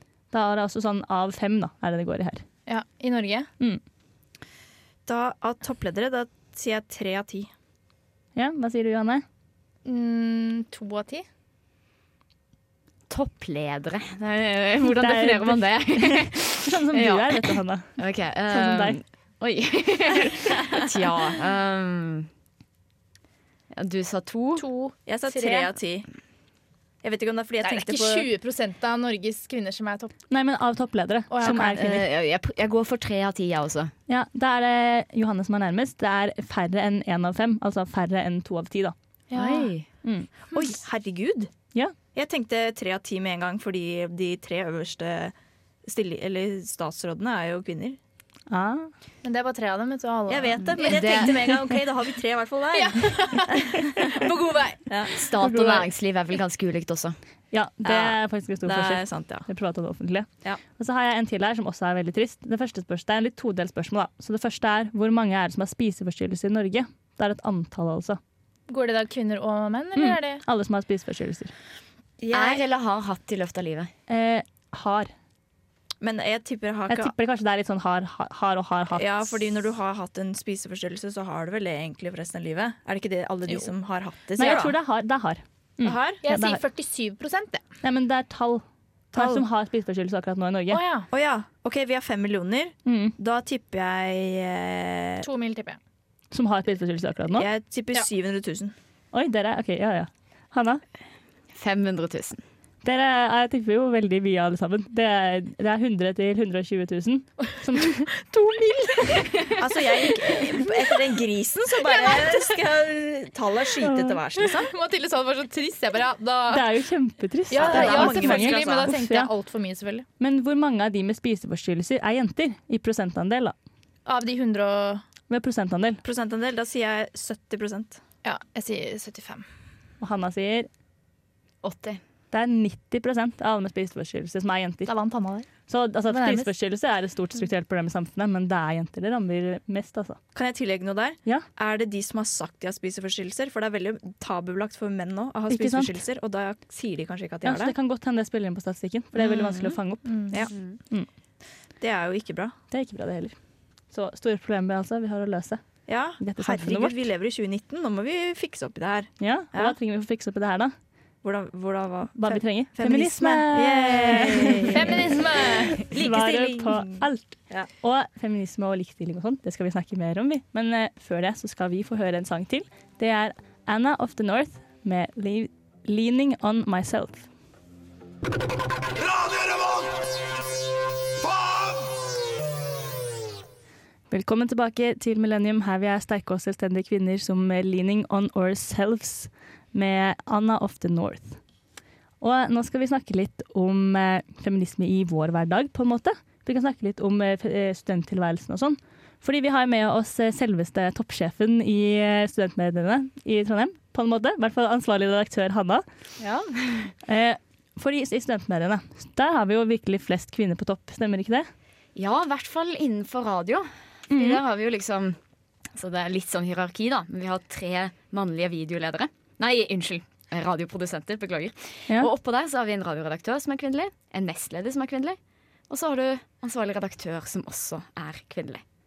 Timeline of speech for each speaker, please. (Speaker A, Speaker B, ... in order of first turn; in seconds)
Speaker A: 0.3-2.4, 8.3-9.2, 14.9-18.0, 18.5-19.0, 30.3-32.1, 34.1-38.9, 40.0-40.3, 48.5-48.9, 55.4-55.8, 57.5-68.2, 70.0-71.5, 74.1-75.1, 76.9-79.4, 84.4-86.6, 87.8-90.8, 92.8-93.1, 96.3-97.5, 99.1-100.8, 102.8-108.1, 113.8-114.2, 116.5-119.3, 120.2-123.5, 125.3-126.0, 130.0-130.7, 132.3-134.9, 135.7-140.2, 145.5-146.0, 147.4-151.1, 152.7-153.3, 153.9-155.6, 156.2-157.0, 159.2-160.7, 162.2-165.0, 165.9-177.3, 184.1-191.4, 192.2-205.8, 207.0-211.5, 214.1-214.4
Speaker B: 2.7-3.5, 9.8-11.2, 24.6-25.7, 27.6-30.1, 31.3-31.9, 39.3-39.7, 49.2-51.3, 52.7-55.8, 68.7-70.4, 86.2-87.6, 90.7-91.1, 95.2-95.8, 108.3-110.7, 111.8-112.5, 114.4-116.7, 117.5-120.0, 124.0-125.0, 128.2-129.4, 134.8-135.5, 136.1-136.5, 150.1-150.4, 164.7-165.9
Speaker C: 5.0-7.5, 25.1-26.1, 27.0-28.3, 40.5-41.5, 42.1-45.3, 45.8-48.0, 50.3-54.2, 54.9-55.1, 57.8-59.5, 72.2-72.6, 76.0-77.1, 78.9-84.7, 85.8-86.2, 89.1-89.4, 91.1-95.3, 97.3-98.7, 109.6-114.7, 117.5-118.9, 126.0-128.0, 140.3-147.7, 151.8-152.5, 155.8-159.8, 161.2-165.1, 165.8-167.7
Speaker D: 13.1-17.4, 18.0-22.3, 23.7-24.6, 31.4-33.9, 39.3-39.9, 50.8-51.3, 55.1-57.2, 72.3-73.9, 101.5-102.4, 131.6-132.0, 150.5-150.8, 206.2-206.9, 211.9-215.2, 215.8-225.2, 225.7-228.6